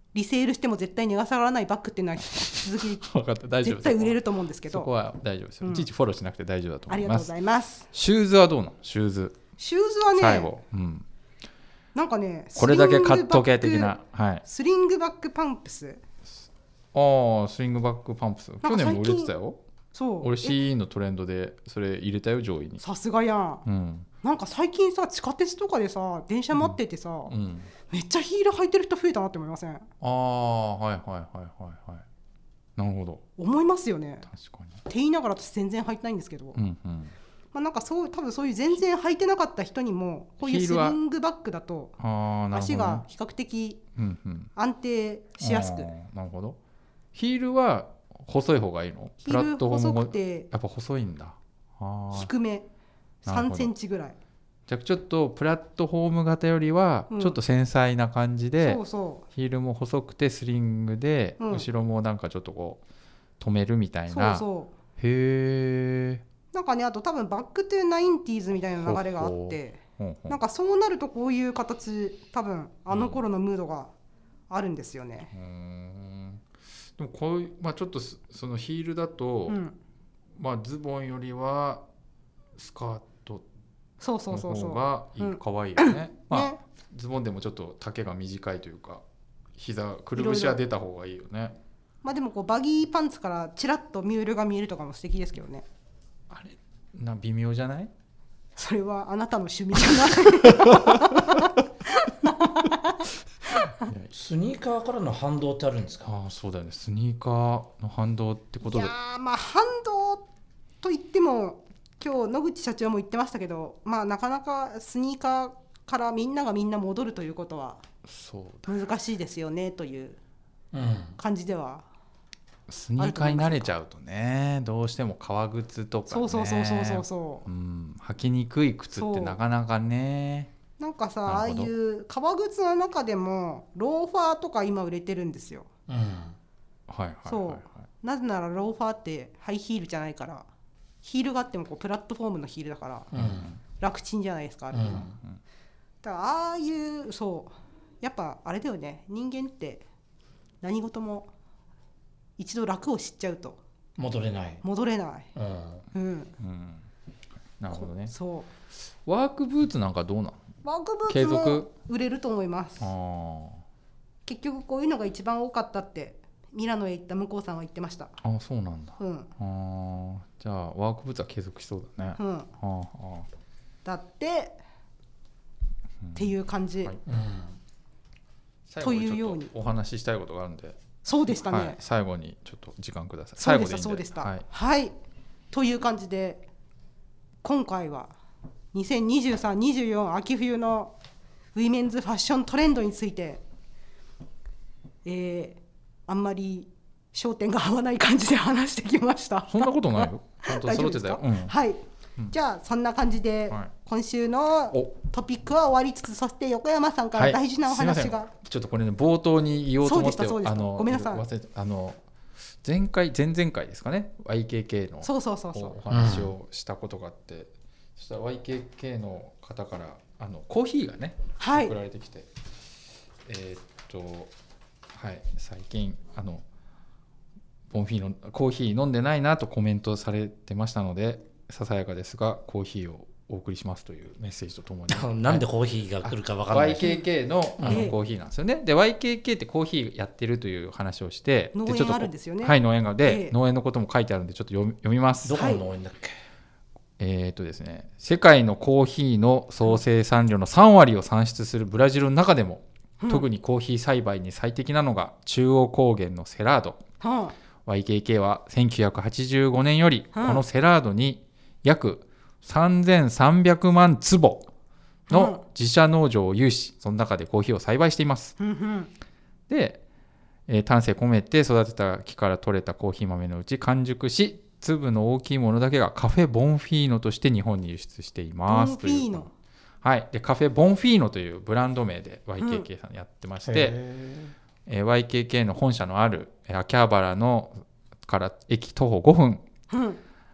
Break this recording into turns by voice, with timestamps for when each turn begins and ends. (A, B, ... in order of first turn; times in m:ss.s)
0:00.1-0:03.0 A
0:02.4-0:07.3 B
0:03.6-0:04.9 A
0:06.9-0:07.9 A
0:07.9-0:09.4 B
0:09.6-0:10.5 A
0:10.1-0:11.0 B
0:11.9-0:13.9 A
0:12.6-0:14.4 B
0:14.4-0:16.0 A
0:16.9-0:19.6 B
0:18.6-0:19.3 A
0:19.9-0:20.6 A
0:20.2-0:22.8 B
0:22.8-0:23.6 A
0:23.6-0:24.1 B
0:24.2-0:27.3 A
0:26.5-0:27.7 B
0:27.9-0:29.9 A
0:30.0-0:32.0 B
0:32.8-0:33.2 B
0:33.4-0:34.3 A
0:34.3-0:34.8 B
0:34.9-0:36.6 A
0:36.5-0:37.1 B
0:37.5-0:42.0 A
0:40.4-0:41.0 B
0:42.0-0:43.0 B
0:42.5-0:43.8 A
0:44.0-0:44.5 B
0:44.5-0:45.9 A
0:45.4-0:46.6 B
0:47.1-0:52.3 B
0:49.2-0:50.5 A
0:52.1-0:52.7 A
0:53.2-0:54.2 A
0:53.3-0:53.7 B
0:54.7-1:02.8 B
0:57.1-0:57.4 A
0:58.6-0:59.2 A
1:01.4-1:01.6 A
1:03.4-1:04.4 B
1:04.1-1:04.7 A
1:05.0-1:06.2 B
1:06.5-1:13.9 A
1:08.8-1:10.4 B
1:12.9-1:13.2 B
1:14.5-1:15.3 A
1:15.3-1:16.4 B
1:17.0-1:19.6 B
1:19.5-1:19.7 A
1:20.4-1:21.8 B
1:22.6-1:23.4 B
1:24.0-1:26.6 A
1:24.3-1:29.0 B
1:29.5-1:31.6 B
1:30.2-1:30.6 A
1:32.0-1:35.6 A
1:36.3-1:37.9 B
1:38.6-1:43.9 A
1:40.4-1:41.4 B
1:43.8-1:44.1 B
1:44.1-1:46.1 C
1:46.0-1:48.9 B
1:48.6-1:50.2 A
1:50.8-1:57.8 A
1:58.0-1:58.9 B
1:58.6-2:00.2 A
2:00.7-2:01.2 C
2:01.2-2:01.8 A
2:02.7-2:10.5 B
2:03.0-2:03.7 A
2:06.1-2:07.4 A
2:08.9-2:09.4 A
2:10.8-2:15.7 A
2:11.2-2:11.7 B
2:15.9-2:16.4 C
2:16.9-2:17.8 B
2:17.3-2:20.5 A
2:21.0-2:23.1 A
2:23.1-2:23.6 C
2:23.1-2:23.6 B
2:23.8-2:25.1 A
2:24.7-2:25.1 C
2:24.9-2:25.4 B
2:26.0-2:29.8 A
2:30.6-2:31.3 A
2:32.4-2:33.6 A
2:34.0-2:34.6 C
2:34.6-2:35.3 A
2:35.3-2:35.8 C
2:35.9-2:36.3 A
2:36.4-2:36.8 B
2:37.6-2:38.1 B
2:37.7-2:38.5 A
2:39.0-2:40.4 B
2:40.6-2:42.9 A
2:41.1-2:41.7 B
2:42.8-2:43.6 B
2:44.2-2:48.1 A
2:48.2-2:53.3 B
2:49.0-2:49.3 A
2:52.2-2:52.5 A
2:53.8-2:54.6 A
2:56.0-2:56.3 B
2:56.1-2:57.0 A
2:57.0-2:57.6 C
2:58.7-3:00.8 B
2:58.8-2:59.5 A
3:01.0-3:01.8 A
3:01.3-3:04.4 B
3:03.4-3:04.9 A
3:05.5-3:06.4 A
3:07.4-3:08.1 A
3:08.7-3:10.9 A
3:11.5-3:13.4 A
3:15.0-3:28.3 A
3:19.5-3:21.5 B
3:27.1-3:32.0 B
3:29.8-3:31.2 A
3:32.6-3:42.3 B
3:35.0-3:35.8 A
3:35.9-3:36.3 C
3:41.4-3:41.7 A
3:43.2-3:44.3 B
3:44.9-3:46.4 B
3:47.7-3:55.4 B
3:54.9-3:56.9 C
3:56.0-4:05.5 B
3:57.6-3:57.9 C
3:57.6-3:57.9 A
4:01.5-4:03.3 A
4:05.2-4:06.2 C
4:05.3-4:05.6 A
4:07.0-4:16.8 B
4:13.0-4:13.3 A
4:17.0-4:17.3 A
4:17.6-4:24.5 B
4:20.1-4:20.4 A
4:25.1-4:28.4 B
4:25.1-4:25.4 A
4:28.4-4:28.9 A
4:29.5-4:29.8 B
4:30.5-4:39.3 B
4:38.5-4:39.3 A
4:39.8-4:43.8 B
4:42.4-4:42.6 A
4:43.4-4:44.3 C
4:44.7-4:49.4 B
4:49.7-4:50.0 A